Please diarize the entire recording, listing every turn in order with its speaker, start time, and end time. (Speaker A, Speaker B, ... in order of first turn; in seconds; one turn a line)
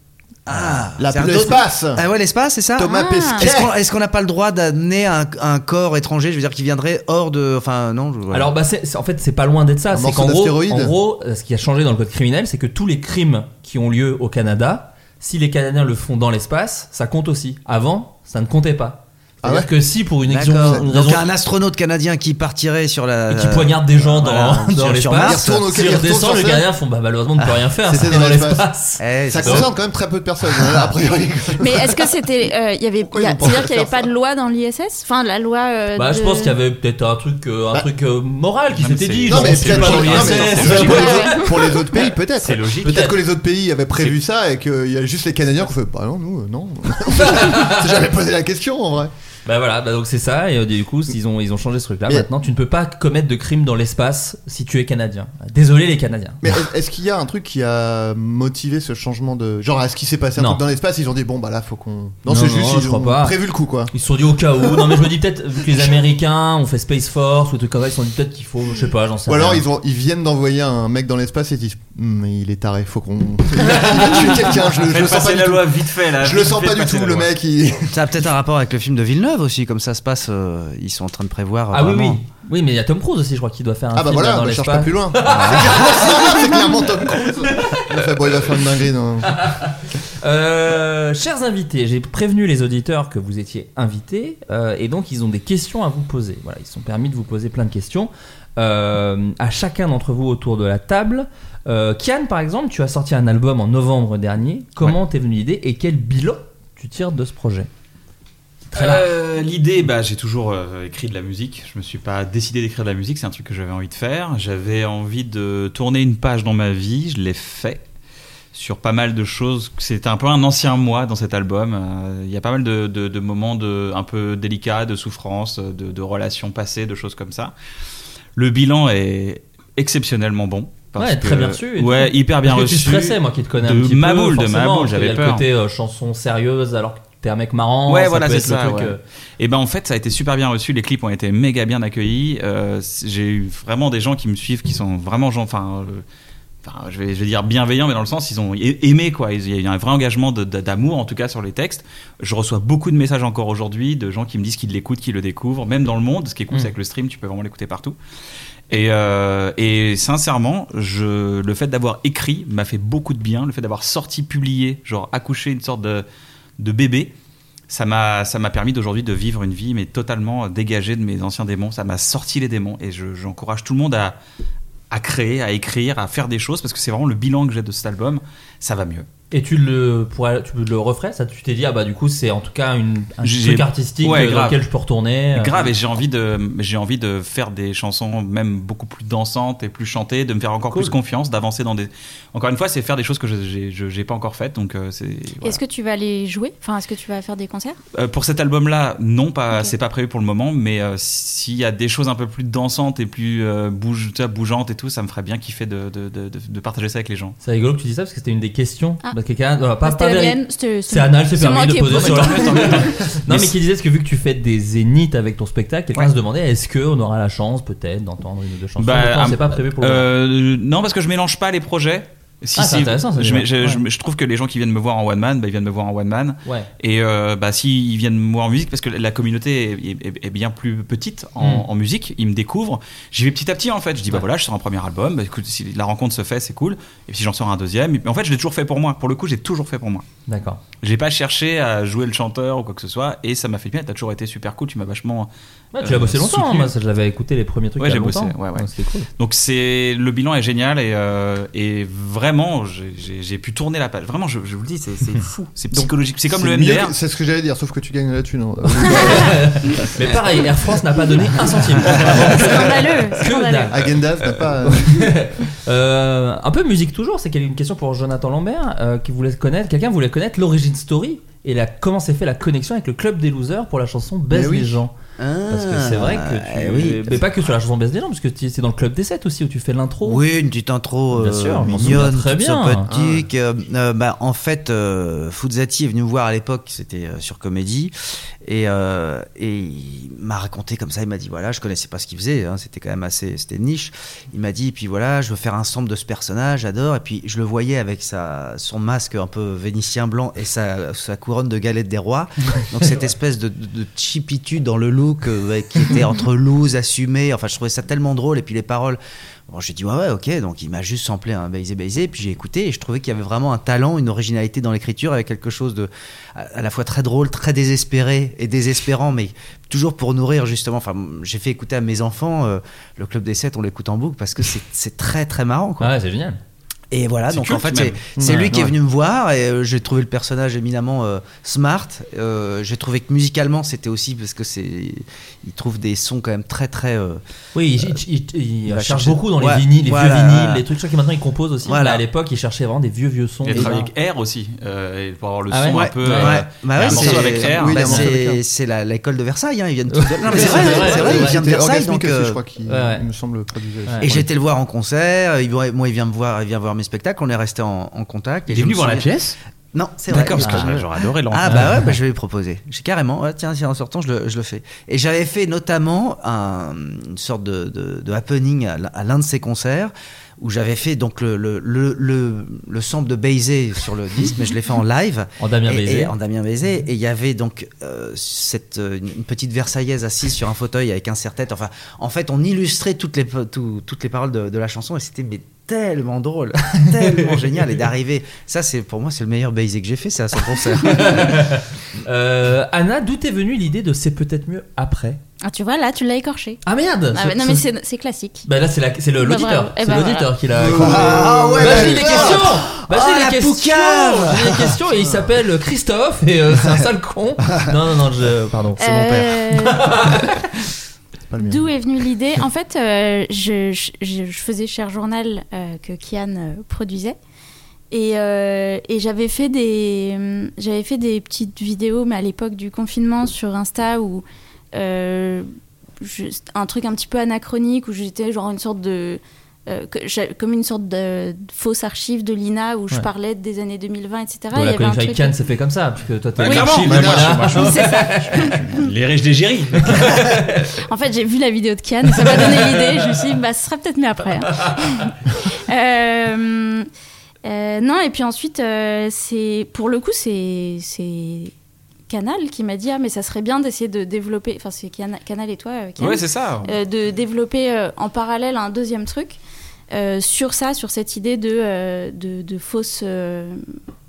Speaker A: 0.5-8.5
Speaker B: 1.0-2.0
Speaker B: 2.8-3.7
Speaker C: 2.9-3.5
Speaker D: 8.3-21.3
Speaker B: 9.9-10.9
Speaker B: 19.4-19.7
Speaker A: 20.3-25.6
Speaker D: 23.3-29.7
Speaker B: 25.2-26.7
Speaker B: 27.8-28.7
Speaker A: 29.0-29.7
Speaker B: 29.3-32.1
Speaker C: 31.6-36.5
Speaker B: 33.1-34.1
Speaker D: 36.0-41.2
Speaker E: 38.8-41.5
Speaker B: 39.3-49.1
Speaker C: 41.0-41.5
Speaker E: 42.3-43.1
Speaker D: 42.8-43.2
Speaker D: 47.1-48.0
Speaker D: 49.5-56.5
Speaker B: 56.4-63.9
Speaker D: 60.4-60.6
Speaker D: 62.3-63.4
Speaker D: 63.9-69.6
Speaker B: 64.6-65.0
Speaker B: 65.7-66.0
Speaker B: 69.3-77.9
Speaker D: 73.6-74.3
Speaker E: 74.8-77.3
Speaker A: 77.9-82.2
Speaker D: 81.7-86.8
Speaker B: 83.9-89.4
Speaker A: 85.2-85.9
Speaker D: 87.5-87.9
Speaker D: 89.3-107.7
Speaker D: 108.7-109.1
Speaker E: 108.7-117.8
Speaker E: 118.5-127.5
Speaker E: 128.4-135.4
Speaker D: 131.0-139.0
Speaker E: 137.9-146.0
Speaker E: 146.6-158.0
Speaker E: 158.7-166.1
Speaker E: 166.6-167.1
Speaker E: 167.7-174.2
Speaker E: 174.9-179.1
Speaker D: 179.3-185.7
Speaker E: 183.2-184.6
Speaker E: 185.3-195.6
Speaker C: 195.4-197.8
Speaker E: 197.9-207.4
Speaker D: 207.4-220.1
Speaker C: 209.8-213.0
Speaker E: 211.9-213.5
Speaker E: 218.8-240.1
Speaker D: 222.6-223.8
Speaker D: 231.4-231.6
Speaker D: 240.3-240.6
Speaker E: 240.8-246.7
Speaker D: 245.7-249.1
Speaker E: 247.8-248.7
Speaker E: 249.2-256.9
Speaker B: 255.7-259.3
Speaker D: 258.9-263.8
Speaker C: 262.1-263.7
Speaker B: 263.7-265.0
Speaker D: 264.7-274.9
Speaker B: 274.3-274.7
Speaker A: 275.2-277.2
Speaker D: 275.5-280.2
Speaker A: 280.0-287.9
Speaker D: 281.1-282.9
Speaker B: 282.9-283.3
Speaker A: 288.4-325.9
Speaker D: 325.8-326.4
Speaker A: 326.9-337.2
Speaker E: 327.3-328.6
Speaker B: 328.1-328.6
Speaker D: 337.6-343.9
Speaker A: 338.7-340.6
Speaker A: 341.6-342.0
Speaker E: 343.4-348.0
Speaker D: 345.5-346.4
Speaker A: 345.7-352.4
Speaker B: 346.9-348.4
Speaker D: 349.9-351.4
Speaker B: 350.3-354.3
Speaker D: 352.7-353.0
Speaker A: 354.0-359.1
Speaker E: 358.5-359.4
Speaker A: 359.7-391.4
Speaker E: 360.1-361.8
Speaker D: 360.4-360.7
Speaker D: 361.5-361.9
Speaker D: 375.4-376.1
Speaker D: 390.8-395.2
Speaker C: 395.4-396.6
Speaker D: 396.6-397.6
Speaker C: 397.1-398.5
Speaker D: 398.4-410.4
Speaker C: 399.2-400.3
Speaker A: 400.6-404.8
Speaker B: 400.6-402.6
Speaker C: 408.8-410.0
Speaker A: 408.9-409.4
Speaker B: 411.3-411.7
Speaker C: 411.4-417.1
Speaker C: 417.9-425.5
Speaker C: 426.0-435.4
Speaker D: 434.5-438.4
Speaker E: 436.4-440.2
Speaker C: 436.4-438.9
Speaker B: 436.9-437.3
Speaker D: 439.9-440.7
Speaker C: 440.9-446.9
Speaker D: 442.2-442.8
Speaker C: 447.4-451.5
Speaker C: 452.1-459.4
Speaker E: 456.0-456.7
Speaker C: 459.9-463.6